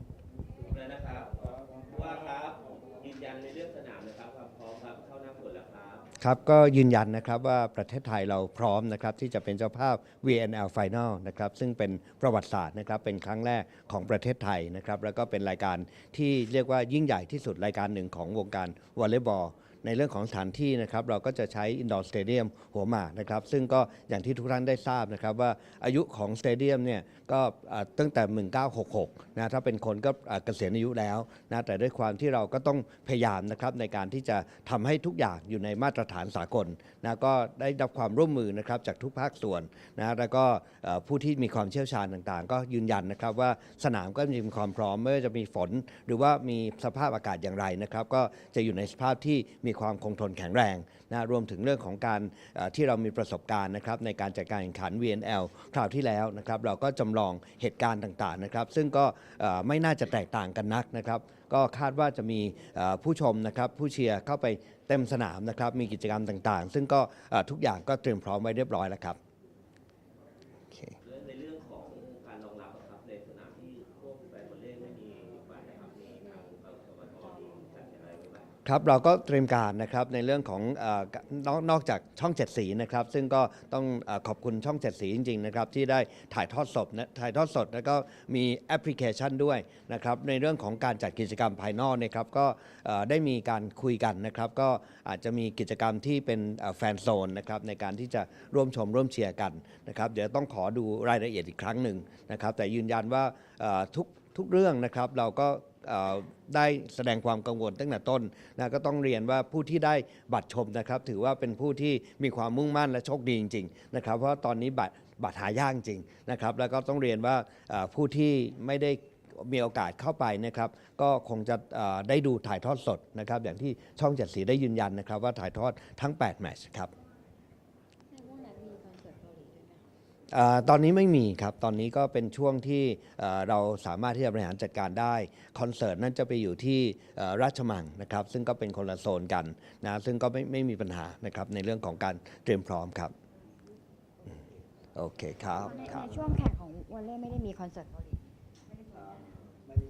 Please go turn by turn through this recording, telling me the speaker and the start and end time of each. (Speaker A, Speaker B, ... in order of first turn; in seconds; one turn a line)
Speaker A: 0.6-6.1
Speaker B: 6.2-69.2
Speaker B: 70.7-71.0
Speaker A: 71.0-78.5
Speaker B: 78.6-126.9
Speaker C: 128.1-129.8
Speaker B: 130.3-143.1
Speaker B: 144.9-146.3
Speaker C: 145.6-149.3